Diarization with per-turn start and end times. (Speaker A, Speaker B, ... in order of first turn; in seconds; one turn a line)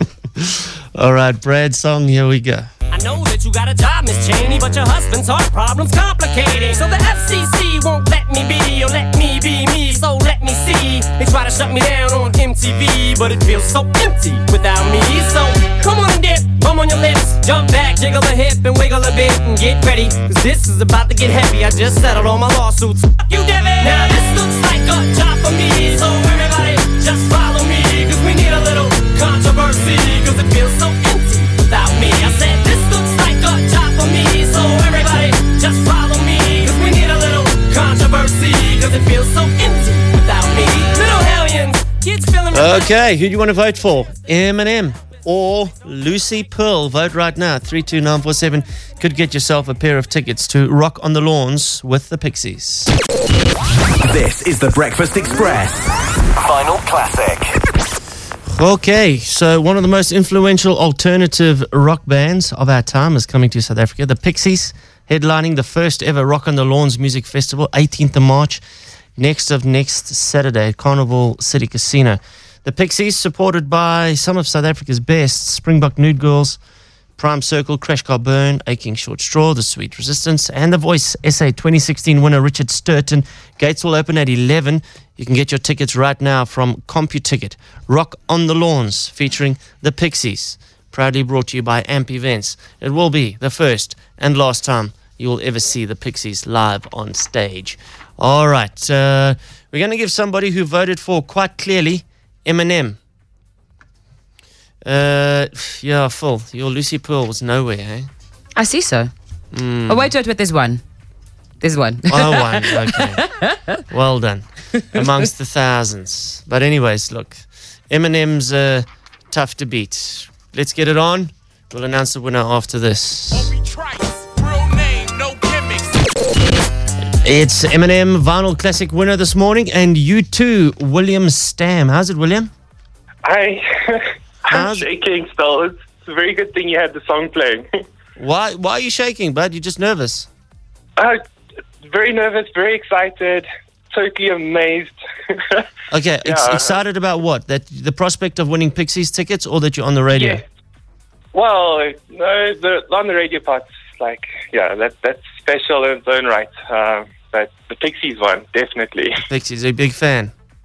Speaker A: 0.4-2.7
Speaker B: 2.9-42.9
Speaker A: 42.5-52.9
Speaker C: 54.0-57.5
Speaker A: 58.5-68.6
Speaker A: 69.2-76.6
Speaker A: 77.2-103.0
Speaker A: 104.8-108.1
Speaker D: 108.5-109.1
Speaker A: 109.5-110.1
Speaker D: 109.9-110.8
Speaker D: 111.6-113.7
Speaker A: 112.1-113.2
Speaker A: 113.9-123.5
Speaker B: 123.6-125.8
Speaker A: 127.2-132.5
Speaker E: 133.2-137.7
Speaker A: 134.5-134.9
Speaker A: 138.2-140.3
Speaker E: 141.8-145.7
Speaker A: 145.9-150.4
Speaker E: 146.2-146.8
Speaker E: 150.1-150.4
Speaker E: 151.3-159.2
Speaker A: 159.3-160.3